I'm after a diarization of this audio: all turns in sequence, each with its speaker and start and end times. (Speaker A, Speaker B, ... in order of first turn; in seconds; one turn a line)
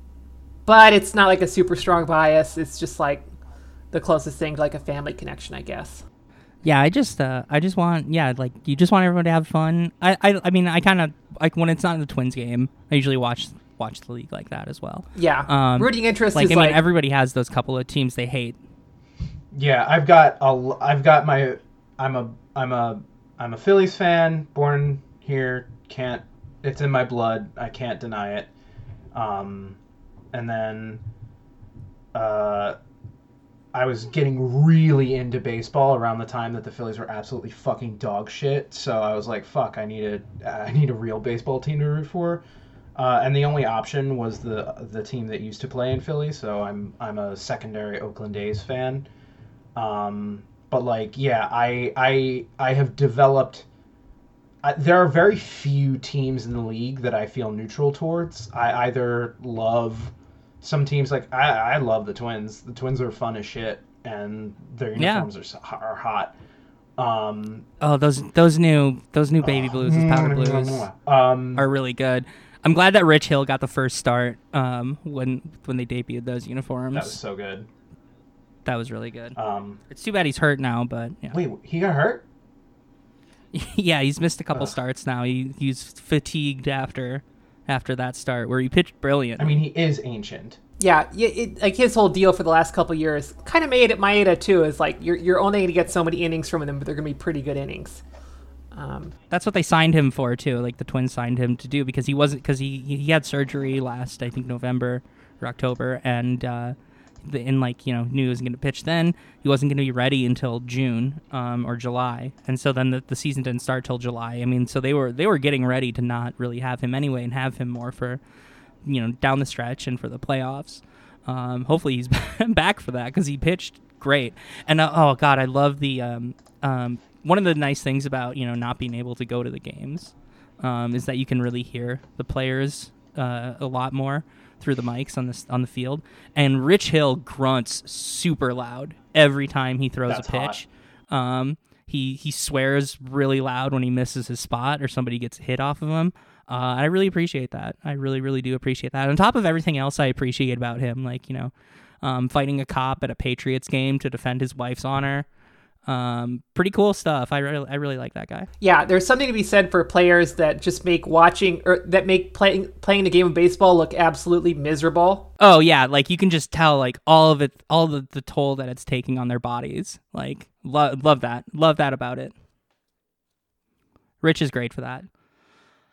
Speaker A: 0.7-3.3
Speaker A: 3.9-6.0
Speaker B: 6.6-18.6
Speaker A: 15.2-16.8
Speaker C: 19.5-28.5
Speaker C: 29.1-29.8
Speaker C: 30.3-31.0
Speaker C: 32.1-32.8
Speaker C: 33.7-42.4
Speaker C: 43.0-49.1
Speaker C: 49.8-53.7
Speaker C: 54.6-66.3
Speaker B: 65.0-65.3
Speaker C: 67.0-67.7
Speaker B: 67.8-70.9
Speaker C: 69.4-71.6
Speaker B: 71.6-77.2
Speaker C: 76.9-77.7
Speaker B: 78.7-79.4
Speaker C: 79.4-79.8
Speaker B: 79.9-81.4
Speaker C: 81.3-82.2
Speaker B: 83.5-89.6
Speaker C: 89.4-90.6
Speaker A: 90.8-98.0
Speaker A: 98.7-99.1
Speaker B: 99.3-118.2
Speaker B: 118.8-155.3
Speaker C: 140.1-140.6
Speaker B: 155.9-158.5
Speaker A: 158.6-165.3
Speaker B: 165.4-172.3
Speaker B: 174.2-175.1